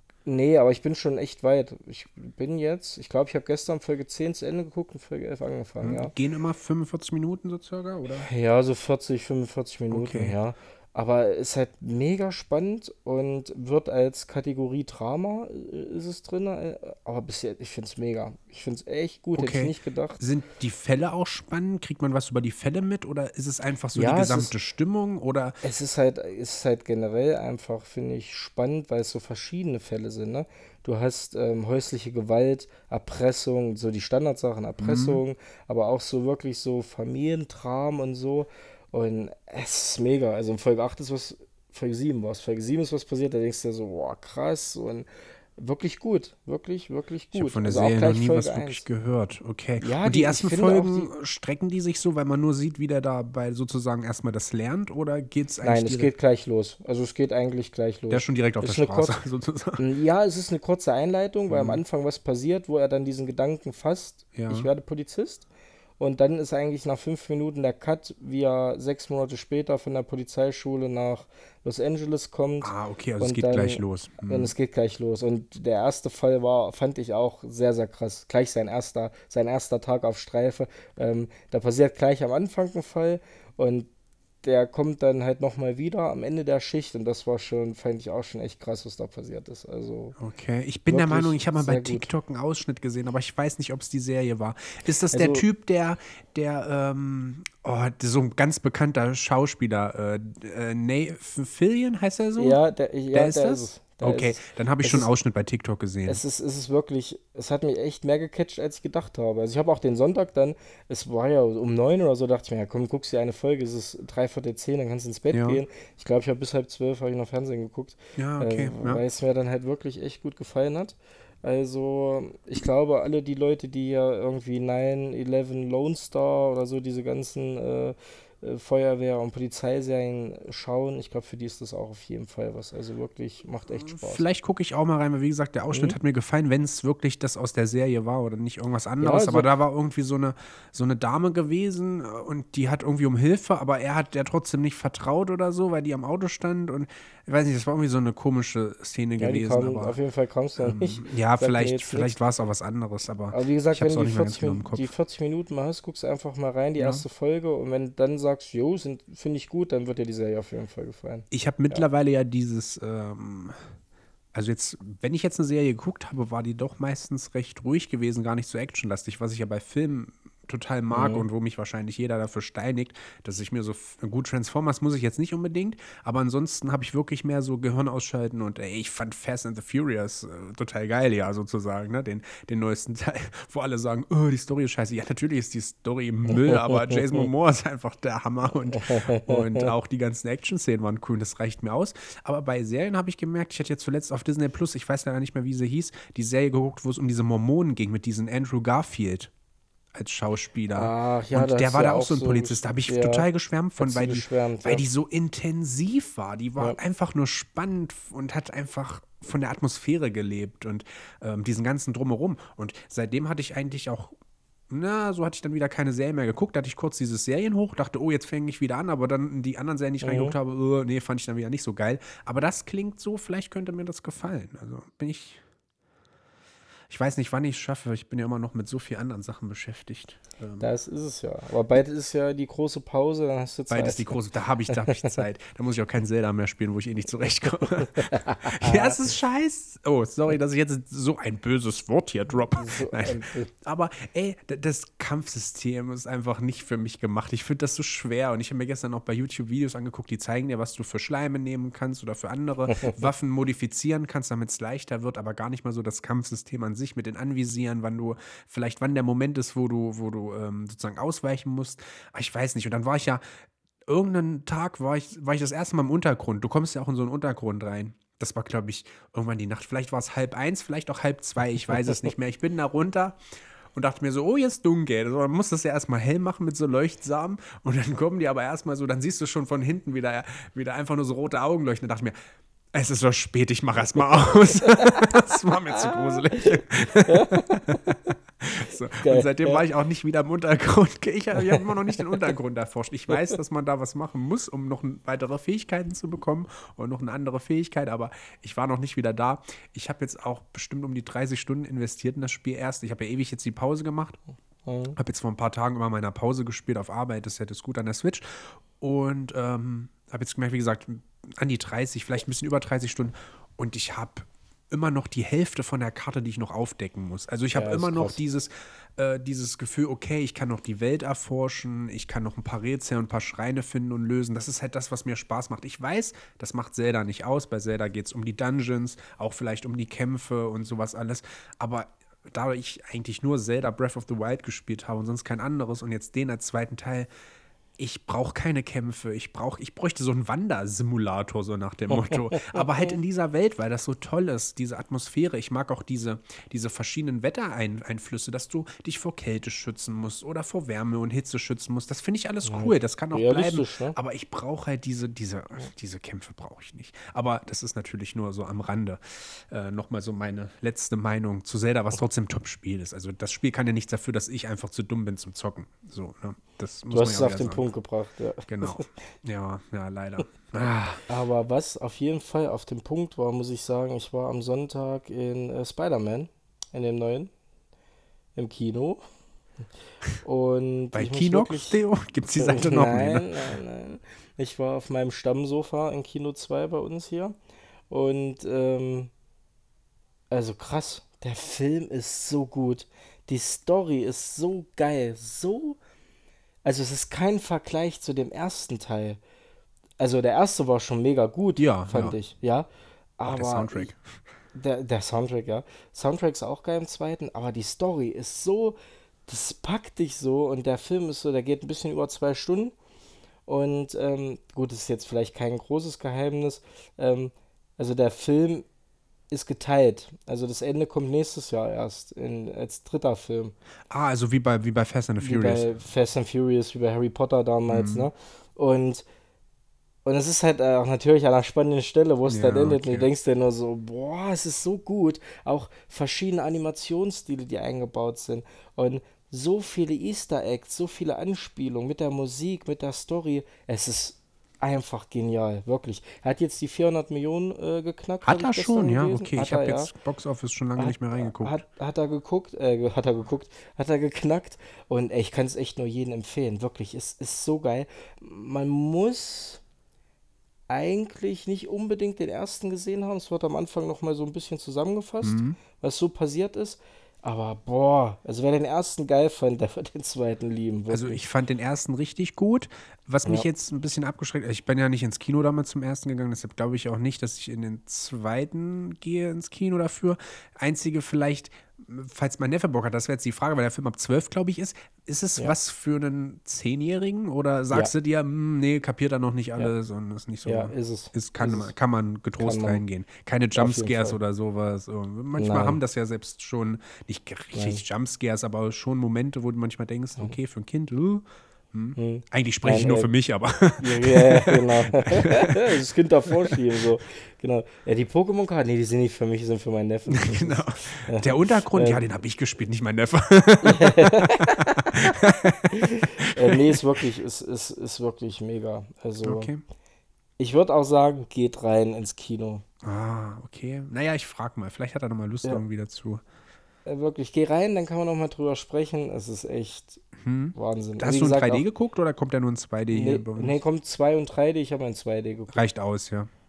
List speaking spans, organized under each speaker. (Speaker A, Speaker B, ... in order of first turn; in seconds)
Speaker A: 0.2-6.1, 8.2-20.2, 23.9-24.5, 25.6-48.8, 49.8-51.1, 55.6-59.2, 59.8-65.5, 66.0-83.9, 84.4-90.2, 90.9-92.1, 95.1-95.4, 102.4-105.1, 106.0-134.2, 135.7-136.0, 139.0-139.5, 149.2-152.1, 153.3-161.8, 170.9-171.2, 186.3-187.3, 188.7-189.7, 200.7-203.2, 203.8-204.8, 220.0-220.3, 230.6-234.1, 234.7-235.2, 238.2-239.0, 242.6-243.5, 271.7-272.1, 284.7-285.1, 287.1-287.8, 289.0-289.6, 304.6-304.9, 317.5-318.2, 341.9-342.9, 352.4-354.0, 366.9-368.9, 370.6-377.3, 378.4-379.0, 380.2-381.8, 382.4-387.3, 387.9-389.1, 390.3-395.8, 396.6-399.2, 400.0-403.9, 404.5-412.7, 413.5-418.7, 419.3-423.5, 425.2-429.1, 430.0-449.9, 450.8-459.6, 460.7-471.2, 490.4-491.7, 492.4-492.8, 493.6-494.2, 495.4-495.8, 497.5-497.8, 502.0-503.1, 503.8-512.0, 513.6-515.1, 515.7-519.5, 520.4-522.6, 526.8-530.0, 530.5-531.6, 532.9-535.6
Speaker B: 5.8-8.3, 9.9-10.3, 19.3-25.6, 34.8-35.2, 47.3-56.1, 58.1-59.8, 61.5-61.8, 64.3-64.7, 72.6-74.5, 90.2-102.6, 103.1-106.2, 115.3-115.6, 118.2-119.0, 133.7-150.0, 150.6-154.9, 156.8-157.0, 161.3-163.7, 164.3-199.3, 199.9-214.1, 214.7-225.4, 226.9-230.7, 233.7-263.2, 263.9-273.2, 273.7-282.1, 282.7-304.2, 304.9-337.1, 337.8-367.6, 368.5-371.0, 380.9-383.4, 401.6-402.1, 403.2-404.2, 423.9-425.7, 427.7-428.1, 432.2-433.1, 448.2-451.6, 465.2-465.6, 470.9-506.5, 510.1-517.0, 519.2-519.6, 522.8-526.2, 530.2-533.6, 535.5-536.3